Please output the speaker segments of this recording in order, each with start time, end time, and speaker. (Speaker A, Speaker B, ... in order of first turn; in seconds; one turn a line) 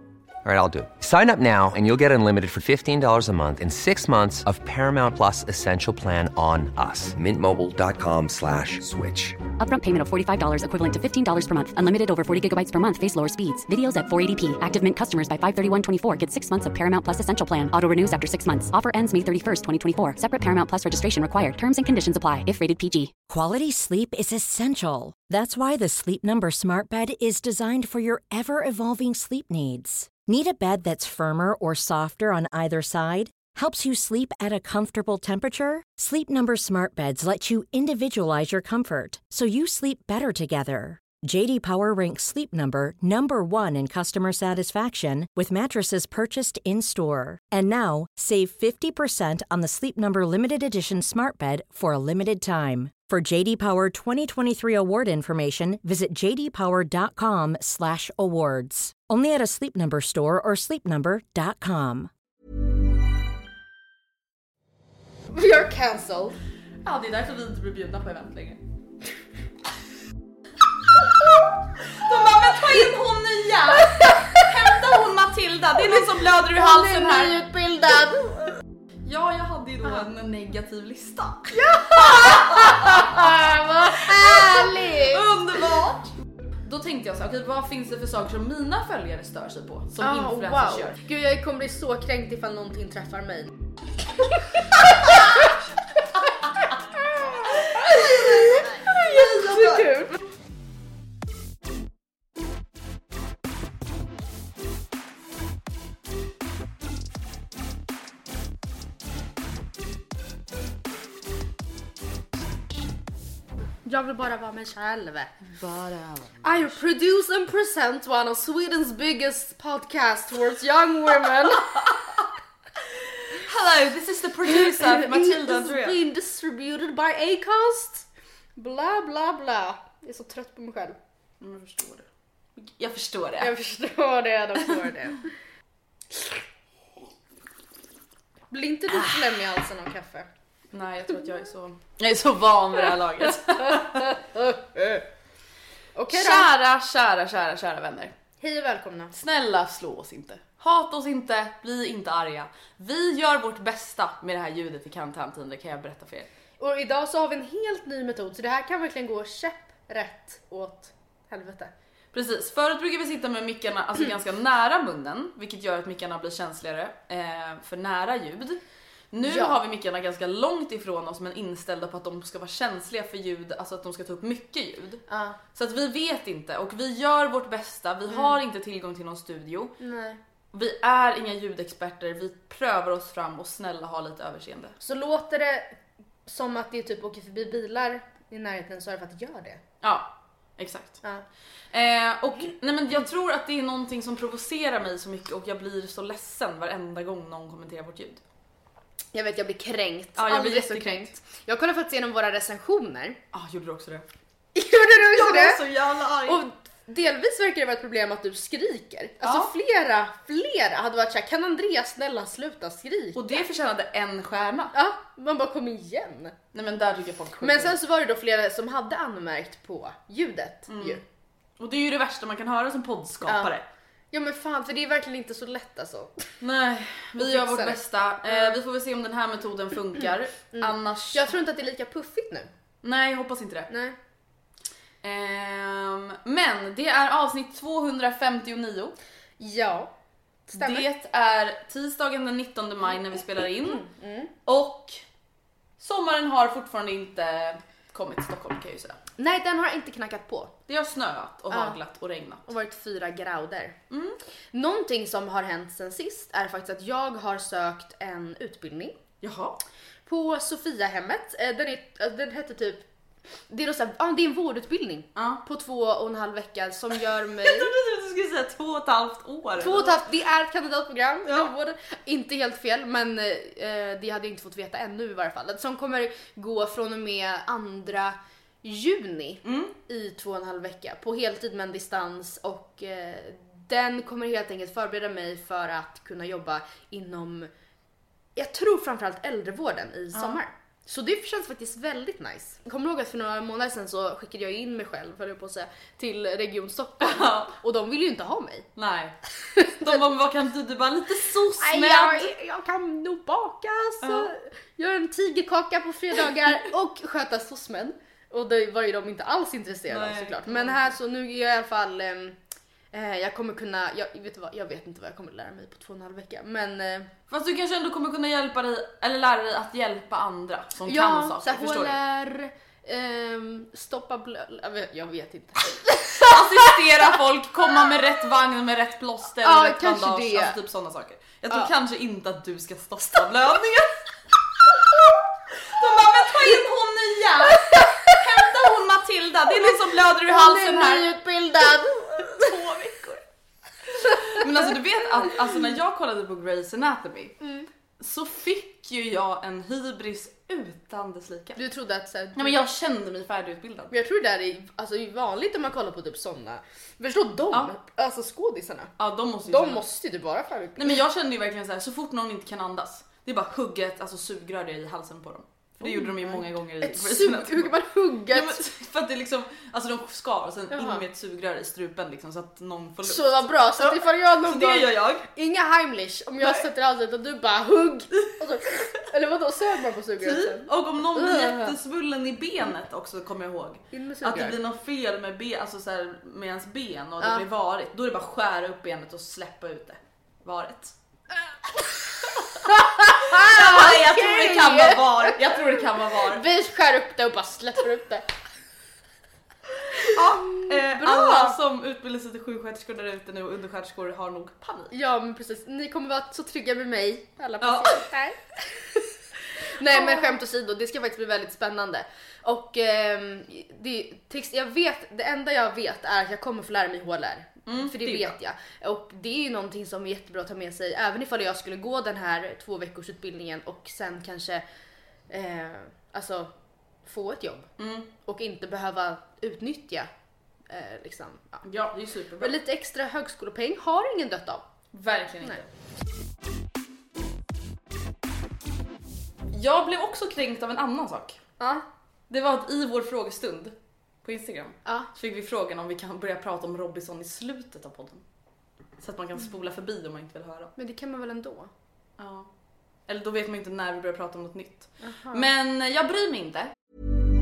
Speaker A: 0.4-9.4
Speaker B: 9.6-23.2
Speaker C: 23.3-62.1
Speaker D: 65.3-66.4
Speaker E: 66.8-68.6
Speaker E: 71.9-77.4
Speaker D: 75.9-78.5
Speaker E: 79.0-83.4
Speaker D: 81.5-85.2
Speaker E: 84.0-86.1
Speaker E: 86.7-91.0
Speaker D: 90.0-93.5
Speaker D: 97.2-100.2
Speaker E: 97.6-100.0
Speaker D: 113.8-115.3
Speaker E: 115.5-116.4
Speaker D: 116.4-121.8
Speaker E: 121.6-122.3
Speaker E: 123.1-126.0
Speaker D: 124.5-128.1
Speaker D: 128.6-131.0
Speaker E: 131.4-132.1
Speaker E: 132.8-133.5
Speaker D: 133.4-135.3
Speaker D: 138.5-140.3
Speaker E: 140.7-144.3
Speaker D: 143.7-144.8
Speaker D: 145.9-146.5
Speaker E: 146.1-148.1
Speaker D: 148.4-149.1
Speaker E: 149.1-156.3
Speaker D: 156.6-161.7
Speaker E: 162.1-179.8
Speaker D: 169.2-169.6
Speaker D: 175.1-175.4
Speaker D: 178.1-178.4
Speaker D: 179.8-180.2
Speaker E: 180.5-184.8
Speaker D: 184.8-189.6
Speaker E: 189.8-191.0
Speaker E: 191.7-198.2
Speaker D: 199.1-203.2
Speaker E: 200.2-201.2
Speaker E: 203.3-204.1
Speaker D: 204.6-205.6
Speaker E: 205.1-206.4
Speaker D: 206.3-213.5
Speaker E: 209.2-209.5
Speaker E: 213.2-214.7
Speaker D: 214.7-216.4
Speaker E: 216.5-217.8
Speaker D: 217.4-221.0
Speaker E: 220.7-221.0
Speaker E: 221.6-223.6
Speaker D: 224.1-226.3
Speaker E: 226.4-231.4
Speaker D: 227.2-228.6
Speaker D: 230.5-232.5
Speaker E: 232.8-233.7
Speaker D: 233.7-234.0
Speaker E: 235.0-239.0
Speaker D: 239.4-239.9
Speaker D: 240.5-240.8
Speaker E: 240.6-243.9
Speaker D: 243.4-244.3
Speaker E: 244.5-245.0
Speaker E: 245.8-249.0
Speaker D: 249.2-250.6
Speaker E: 250.7-252.5
Speaker D: 251.5-251.8
Speaker D: 252.5-253.8
Speaker E: 253.9-254.2
Speaker D: 254.5-259.0
Speaker E: 259.2-259.6
Speaker D: 260.1-262.8
Speaker D: 263.5-267.7
Speaker E: 265.2-265.4
Speaker E: 267.4-270.1
Speaker D: 269.6-287.5
Speaker E: 279.4-279.7
Speaker D: 288.4-298.7
Speaker E: 290.1-290.4
Speaker E: 297.0-297.5
Speaker E: 298.8-302.3
Speaker D: 299.5-300.0
Speaker D: 301.6-312.4
Speaker E: 304.0-304.3
Speaker E: 309.9-310.9
Speaker D: 312.9-317.1
Speaker E: 317.3-321.9
Speaker D: 320.9-326.7
Speaker E: 325.9-334.0
Speaker D: 329.4-330.6
Speaker E: 335.7-341.1
Speaker D: 337.7-338.2
Speaker D: 340.3-342.8
Speaker E: 342.3-343.2
Speaker E: 344.0-347.4
Speaker D: 344.1-344.7
Speaker D: 347.4-347.7
Speaker E: 348.0-351.6
Speaker D: 351.6-352.6
Speaker E: 352.3-353.9
Speaker D: 353.9-358.9
Speaker E: 359.0-359.8
Speaker D: 359.5-361.0
Speaker E: 360.8-367.8
Speaker D: 365.8-368.6
Speaker E: 368.3-375.3
Speaker D: 370.7-371.0
Speaker D: 373.1-381.7
Speaker E: 380.2-390.9
Speaker D: 383.9-384.6
Speaker E: 392.3-396.4
Speaker D: 392.5-398.2
Speaker D: 400.0-401.6
Speaker E: 400.0-404.9
Speaker D: 404.9-409.0
Speaker E: 407.6-408.1
Speaker D: 409.7-424.6
Speaker E: 409.9-410.3
Speaker E: 417.7-418.4
Speaker D: 425.3-426.5
Speaker D: 427.0-427.7
Speaker E: 427.8-428.1
Speaker D: 428.2-430.1
Speaker D: 430.7-431.6
Speaker E: 431.6-432.6
Speaker D: 432.4-434.7
Speaker E: 434.9-435.7
Speaker E: 439.5-441.4
Speaker E: 442.3-448.2
Speaker E: 449.0-450.7
Speaker D: 450.8-451.7
Speaker E: 452.2-452.5
Speaker E: 453.1-456.7
Speaker D: 455.0-455.5